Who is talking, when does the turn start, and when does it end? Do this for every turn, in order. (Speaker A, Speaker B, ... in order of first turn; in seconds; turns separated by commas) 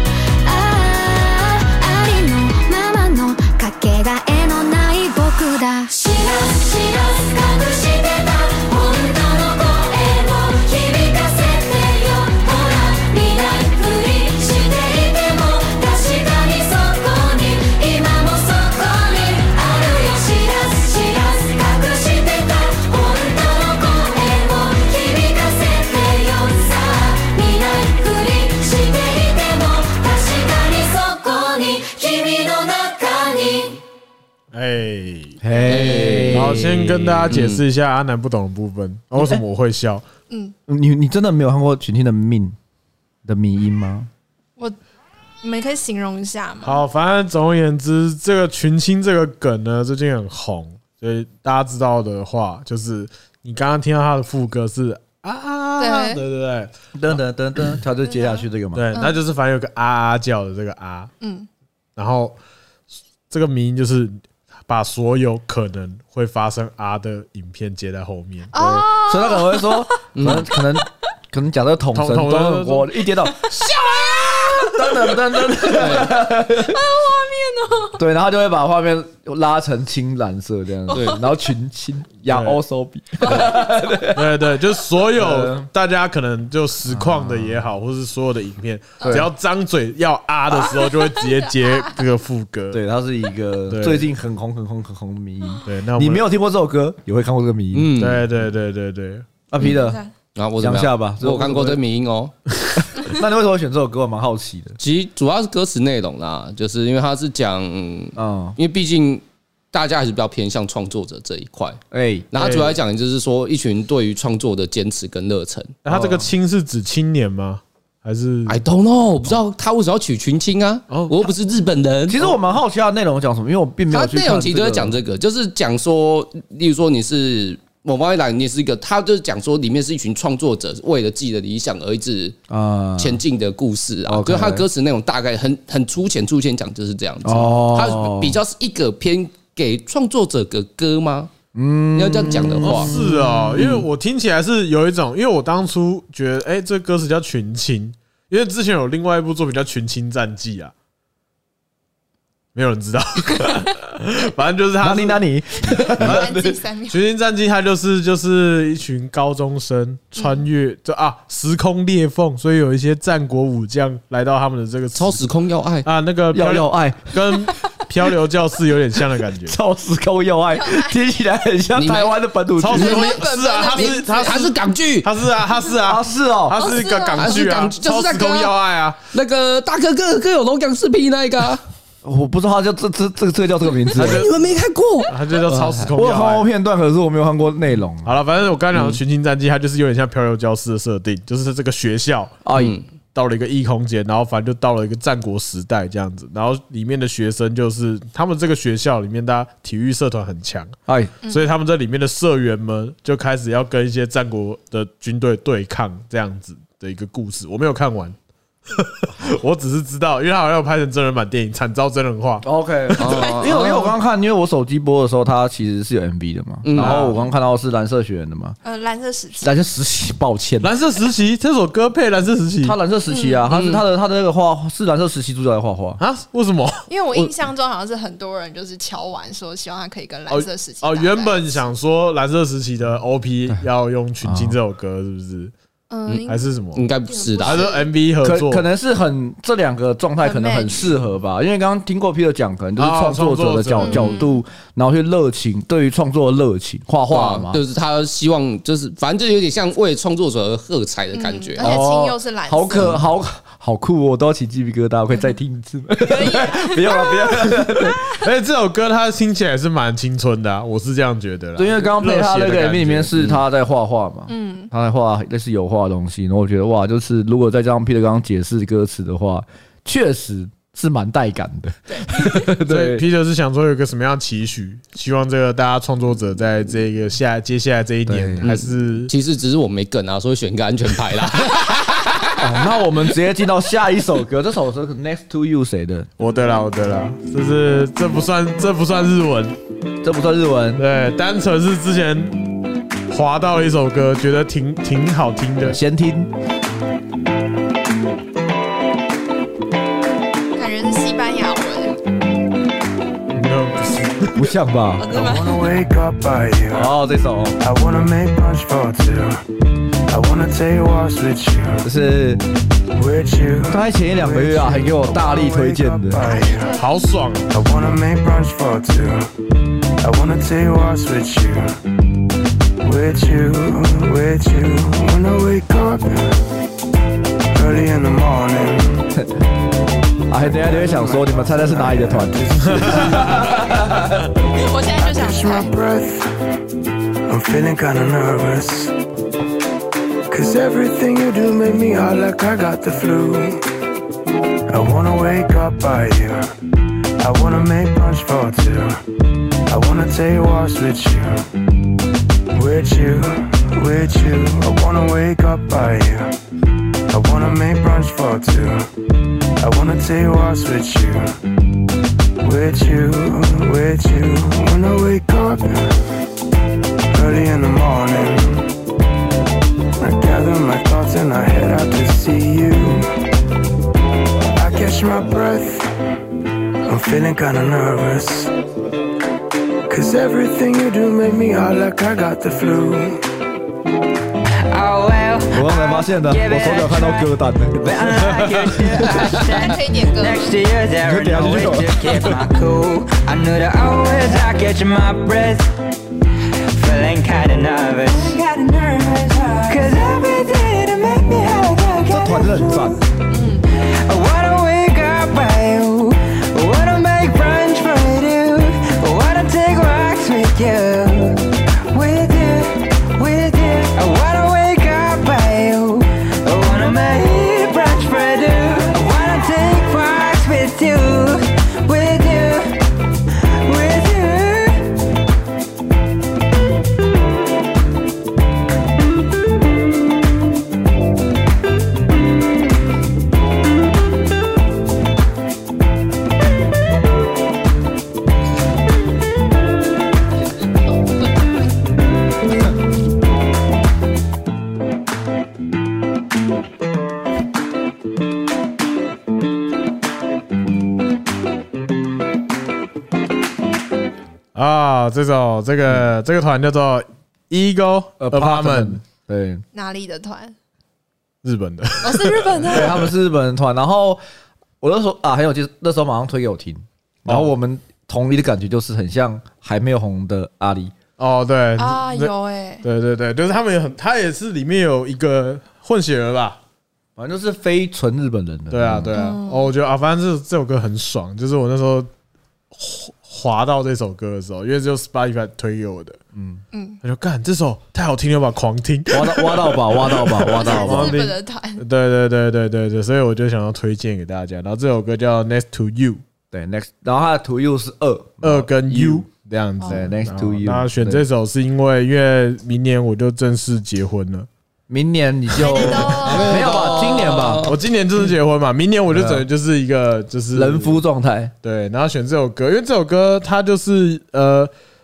Speaker A: 0.4-33.8, Speaker B: 34.5-35.4, Speaker C: 35.4-37.2, Speaker D: 35.6-36.5, Speaker B: 35.9-40.0, Speaker D: 37.2-37.6, Speaker E: 40.3-40.5, Speaker C: 40.7-42.5, Speaker C: 43.2-44.1, Speaker E: 45.4-46.9, Speaker B: 46.6-57.1, Speaker E: 55.8-56.2, Speaker C: 57.0-58.9, Speaker E: 58.1-59.2, Speaker B: 58.7-61.1, Speaker E: 61.2-61.5, Speaker B: 62.0-62.4, Speaker B: 63.3-68.9, Speaker E: 68.5-69.9, Speaker C: 69.0-73.5, Speaker D: 70.1-70.5, Speaker B: 71.9-72.9, Speaker E: 73.5-75.0, Speaker C: 74.6-76.8, Speaker D: 75.7-76.2, Speaker E: 76.4-78.0, Speaker C: 78.0-84.5, Speaker D: 80.9-81.2, Speaker E: 80.9-81.2, Speaker B: 82.3-82.6, Speaker E: 83.2-83.7, Speaker B: 84.1-92.8, Speaker C: 85.1-85.7, Speaker C: 86.9-87.6, Speaker E: 89.0-89.2, Speaker C: 89.0-89.3, Speaker E: 90.5-92.0, Speaker C: 92.7-97.9, Speaker B: 93.7-94.1, Speaker B: 95.6-96.3, Speaker D: 97.7-98.2, Speaker B: 98.0-99.3, Speaker C: 99.5-100.0, Speaker E: 99.6-100.1, Speaker D: 100.3-102.3, Speaker C: 100.6-101.8, Speaker C: 103.0-104.8, Speaker D: 104.8-111.8, Speaker C: 108.2-108.5, Speaker C: 111.9-112.3, Speaker D: 112.3-115.8, Speaker B: 112.4-112.7, Speaker B: 115.8-118.6, Speaker C: 115.9-116.2, Speaker D: 118.5-122.2, Speaker B: 120.9-121.3, Speaker C: 122.1-125.0, Speaker D: 123.9-132.4, Speaker C: 132.5-133.2, Speaker D: 133.0-141.3, Speaker C: 134.1-134.7, Speaker C: 137.2-138.4, Speaker C: 141.5-143.8, Speaker D: 141.9-142.9, Speaker B: 142.6-150.7, Speaker B: 152.5-155.2, Speaker C: 154.8-156.6, Speaker E: 155.8-157.1, Speaker B: 155.9-156.3, Speaker B: 156.9-165.2, Speaker E: 160.2-160.4, Speaker D: 164.9-165.9, Speaker B: 165.8-169.6, Speaker C: 166.3-167.5, Speaker C: 169.5-173.0, Speaker E: 170.5-170.9, Speaker D: 171.8-172.2, Speaker B: 172.6-179.0, Speaker E: 172.7-174.5, Speaker D: 173.7-175.1, Speaker C: 175.8-176.6, Speaker E: 176.5-177.6, Speaker D: 177.2-178.5, Speaker D: 179.1-181.6, Speaker C: 182.0-184.2, Speaker D: 183.9-185.9, Speaker B: 183.9-184.3, Speaker B: 185.1-186.5, Speaker C: 185.9-188.1, Speaker B: 188.0-192.4, Speaker D: 188.7-189.0, Speaker C: 192.4-192.8, Speaker D: 192.5-192.8, Speaker B: 193.1-200.7, Speaker C: 200.9-201.1, Speaker E: 201.2-201.5, Speaker B: 201.3-208.2, Speaker B: 208.7-212.4, Speaker C: 212.4-218.6, Speaker D: 213.0-213.9, Speaker E: 213.1-213.7, Speaker D: 216.6-217.1, Speaker B: 216.8-217.2, Speaker E: 218.6-219.5, Speaker C: 219.4-220.7, Speaker B: 220.6-222.8, Speaker C: 222.6-226.0, Speaker E: 223.1-223.5, Speaker D: 223.5-223.8, Speaker B: 226.0-227.3, Speaker E: 226.9-231.6, Speaker B: 230.3-235.5, Speaker C: 234.2-234.6, Speaker E: 235.9-237.9, Speaker D: 236.1-237.7, Speaker B: 236.2-236.9, Speaker B: 237.4-238.6, Speaker C: 238.2-247.6, Speaker E: 240.2-240.9, Speaker B: 242.8-244.3, Speaker E: 243.8-244.4, Speaker D: 247.1-251.8, Speaker E: 251.1-253.0, Speaker C: 251.6-258.1, Speaker E: 256.0-258.1, Speaker B: 258.1-263.4, Speaker C: 261.6-273.0, Speaker E: 264.3-264.7, Speaker E: 271.9-272.4, Speaker B: 272.6-279.1, Speaker C: 278.1-278.5, Speaker D: 278.4-282.3, Speaker C: 282.4-286.1, Speaker B: 286.2-289.5, Speaker C: 290.0-290.8, Speaker B: 290.8-292.4, Speaker B: 293.1-295.8, Speaker C: 295.6-296.3, Speaker E: 300.5-302.0, Speaker B: 303.3-304.5, Speaker C: 304.3-305.1, Speaker E: 305.0-305.7, Speaker F: 305.1-306.9, Speaker C: 306.7-307.6, Speaker F: 307.6-309.4, Speaker F: 310.1-311.9, Speaker C: 311.8-312.4, Speaker F: 312.9-316.8, Speaker C: 313.7-316.3, Speaker E: 316.2-316.9, Speaker B: 316.7-317.5, Speaker F: 317.5-319.3, Speaker F: 320.0-321.8, Speaker F: 322.8-326.3, Speaker F: 327.5-329.1, Speaker C: 330.3-334.2, Speaker F: 330.4-333.0, Speaker B: 332.6-333.6, Speaker E: 334.5-335.7, Speaker F: 335.0-336.3, Speaker F: 337.3-338.9, Speaker F: 340.3-343.6, Speaker F: 344.7-346.5, Speaker F: 347.2-349.0, Speaker F: 349.7-351.4, Speaker F: 352.5-356.3, Speaker F: 357.1-358.9, Speaker F: 359.6-361.3, Speaker F: 362.4-365.9, Speaker F: 367.1-368.7, Speaker F: 370.0-373.1, Speaker F: 374.5-375.9, Speaker F: 376.8-378.5, Speaker F: 379.9-383.2, Speaker G: 384.7-395.7, Speaker C: 385.5-388.2, Speaker B: 388.3-388.6, Speaker E: 389.5-390.5, Speaker C: 391.0-392.5, Speaker G: 396.8-403.0, Speaker C: 402.1-403.0, Speaker E: 403.3-403.6, Speaker G: 404.1-422.8, Speaker G: 423.6-424.8, Speaker B: 454.5-459.0, Speaker C: 458.2-459.6, Speaker E: 459.7-460.5, Speaker B: 461.4-462.9, Speaker E: 462.0-463.0, Speaker C: 462.7-464.2, Speaker C: 464.8-470.9, Speaker B: 471.2-476.6, Speaker E: 471.8-472.9, Speaker C: 477.2-479.2, Speaker B: 478.7-482.1, Speaker E: 479.1-479.7, Speaker B: 482.7-486.2, Speaker C: 486.3-486.6, Speaker E: 486.7-487.0, Speaker B: 487.0-496.2, Speaker C: 489.1-491.2, Speaker E: 490.6-491.8, Speaker C: 496.5-499.2, Speaker B: 498.4-504.5, Speaker E: 499.8-500.1, Speaker C: 499.8-501.2, Speaker C: 504.9-507.6, Speaker E: 505.5-507.0, Speaker D: 506.2-507.8, Speaker B: 507.6-511.0, Speaker C: 509.1-509.4, Speaker C: 510.5-511.5, Speaker B: 511.6-514.7